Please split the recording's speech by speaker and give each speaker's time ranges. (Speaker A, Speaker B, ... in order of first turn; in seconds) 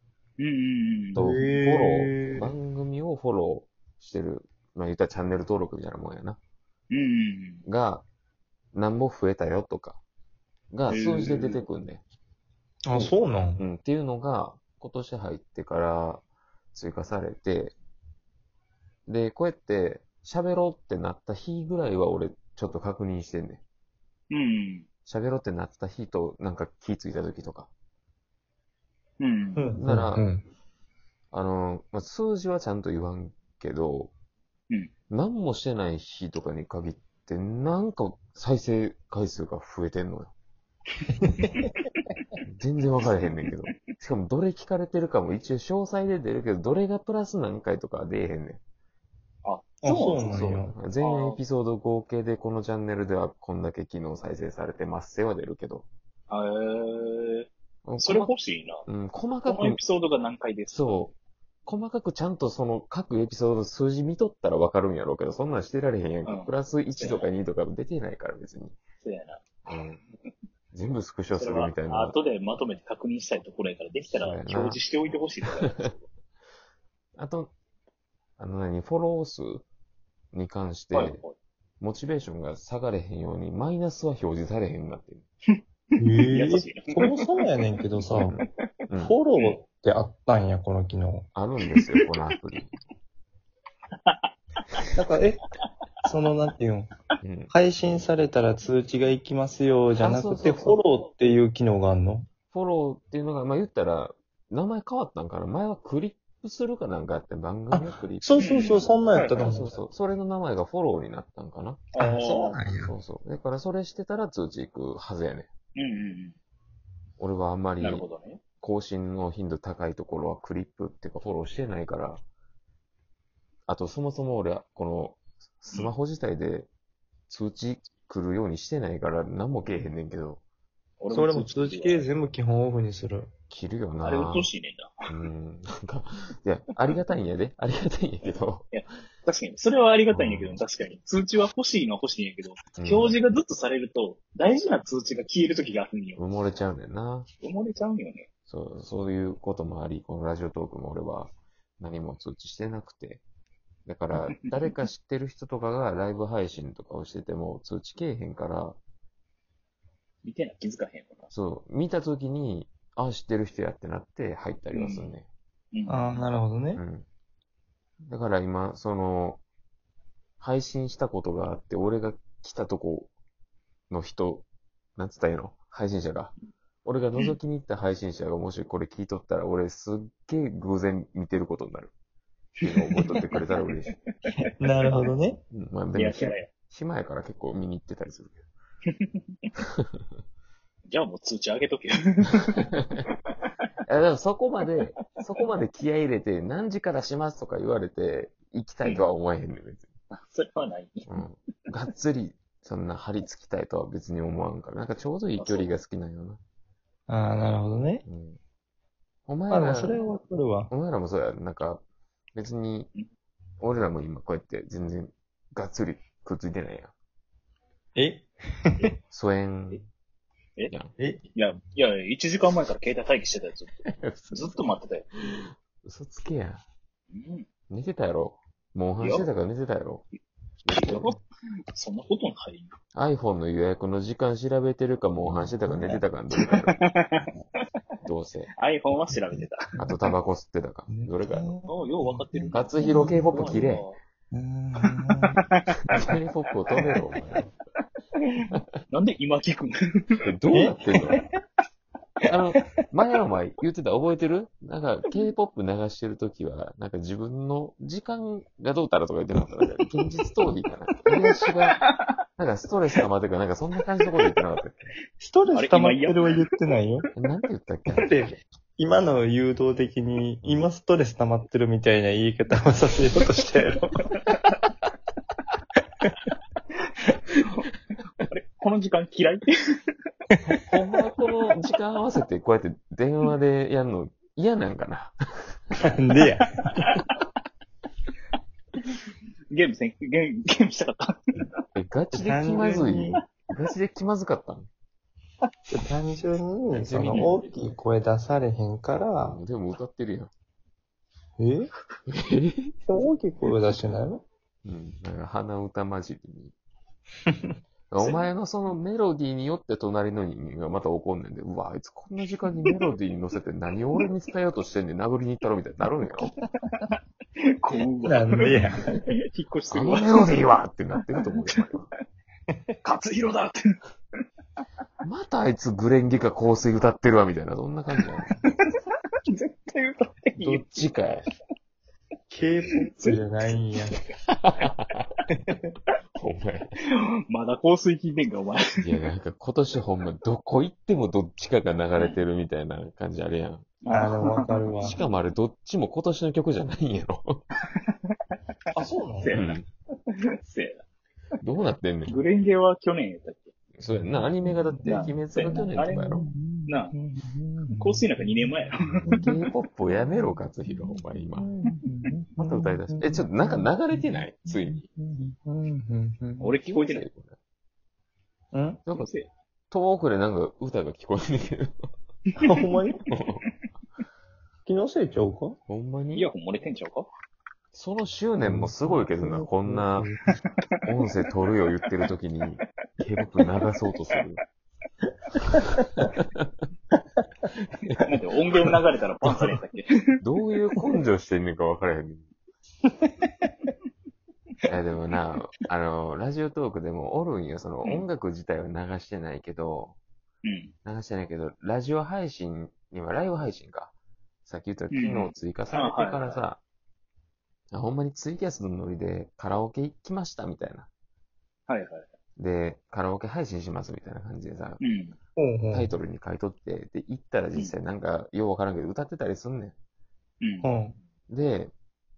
Speaker A: 0.4-1.2, 6.9-7.6, 10.9-11.6, 24.3-24.9, 29.2-29.8, 41.5-41.7, 49.4-51.4, 56.3-57.5, 58.0-58.8, 59.5-61.1, 66.3-67.3, 69.0-69.5, 71.3-76.1, 80.9-81.3, 86.3-87.1, 94.0-94.8, 108.4-109.6, 111.9-112.6, 115.8-116.4, 117.8-118.4, 131.0-132.1, 134.0-135.1, 138.7-146.6, 147.4-148.3, 160.2-161.3, 164.7-165.2, 165.7-166.2, 182.8-183.2, 183.9-184.3, 185.9-186.5, 190.9-192.7, 200.2-201.1, 205.4-205.7, 221.3-225.1, 227.1-227.5, 229.0-229.3, 230.7-231.2, 231.7-232.8, 236.8-237.3, 238.6-239.7, 241.7-244.0, 248.9-249.8, 261.2-262.1, 265.5-266.5, 277.4-277.7, 278.2-279.5, 286.7-287.2, 289.5-291.2, 297.1-297.4, 308.0-308.3, 317.6-320.4, 322.8-323.6, 328.7-330.9, 332.9-333.6, 337.3-338.7, 343.8-345.0, 349.2-349.6, 350.4-350.8, 352.1-353.5, 354.9-357.0, 357.8-359.2, 366.4-367.1, 368.9-369.3, 376.1-377.1, 388.1-389.9, 400.4-400.7, 404.9-406.5, 411.7-412.1, 414.8-415.2, 420.4-420.7
Speaker B: 1.1-6.4, 7.6-8.1, 8.7-10.0, 10.7-12.0, 12.9-16.2, 16.7-17.7, 19.1-23.6, 25.1-27.7, 29.8-30.3, 31.3-34.1, 35.1-40.3, 42.5-48.6, 50.3-55.9, 57.9-58.3, 58.9-59.8, 60.7-61.1, 61.7-68.8, 69.7-70.0, 70.7-72.2, 74.1-74.8, 77.2-77.5, 78.4-79.7, 80.3-81.2, 81.8-85.2, 88.1-89.2, 91.3-92.7, 97.2-97.5, 100.0-100.8, 102.5-111.9, 112.9-115.5, 117.2-118.1, 118.6-122.2, 123.7-126.7, 127.3-130.4, 133.5-134.5, 135.1-138.7, 140.1-140.6, 142.8-143.2, 146.2-147.3, 148.5-153.2, 153.9-158.8, 161.3-165.3, 166.8-167.1, 168.0-169.4, 170.4-173.1, 173.9-174.5, 175.0-176.3, 176.8-181.9, 182.6-183.9, 185.5-188.4, 192.6-193.0, 193.9-199.9, 201.1-206.4, 208.1-208.4, 209.3-210.0, 210.7-211.8, 212.3-212.9, 213.6-216.9, 219.1-219.8, 223.8-226.6, 227.7-230.1, 230.7-231.2, 232.9-236.8, 238.0-238.5, 239.8-241.5, 242.5-243.8, 245.9-247.5, 250.2-251.2, 252.3-261.8, 262.4-264.8, 267.2-268.1, 280.7-285.8, 291.8-294.7, 296.7-297.4, 299.2-300.3, 302.1-302.7, 304.6-306.5, 307.9-316.3, 319.7-321.9, 325.0-328.3, 330.4-331.2, 334.2-335.1, 336.2-336.7, 338.8-343.7, 344.7-347.4, 349.3-349.6, 351.4-352.2, 353.8-356.3, 359.1-361.5, 362.4-364.9, 366.6-367.4, 369.7-371.7, 373.1-373.4, 375.7-376.3, 377.7-380.1, 380.9-384.4, 385.8-386.5, 387.7-388.2, 390.2-392.3, 394.7-400.0, 400.9-403.9, 404.4-406.6, 407.7-410.9, 412.4-414.8, 415.7-419.8, 421.3-421.7
Speaker C: 1.2-2.5, 12.9-13.6, 29.6-30.5, 41.2-41.7, 49.8-50.8, 86.0-88.3, 89.0-91.3, 95.0-95.4, 96.0-96.9, 97.5-102.3, 107.7-109.8, 112.0-113.0, 131.1-133.3, 165.9-166.8, 184.6-185.4, 207.1-208.0, 209.5-210.7, 218.0-218.3, 235.4-236.0, 239.3-240.0, 240.9-243.7, 244.3-245.4, 250.5-251.2, 265.2-267.1, 267.9-273.9, 285.8-286.5, 292.1-293.2, 295.7-299.4, 301.4-301.7, 302.9-304.2, 318.0-319.0, 332.3-334.0, 343.9-345.0, 348.7-349.4, 353.9-358.5, 359.0-359.4, 360.1-366.5, 368.5-368.8, 372.4-373.0, 374.7-375.6, 378.4-380.4, 385.4-386.0, 415.4-415.9, 420.6-421.0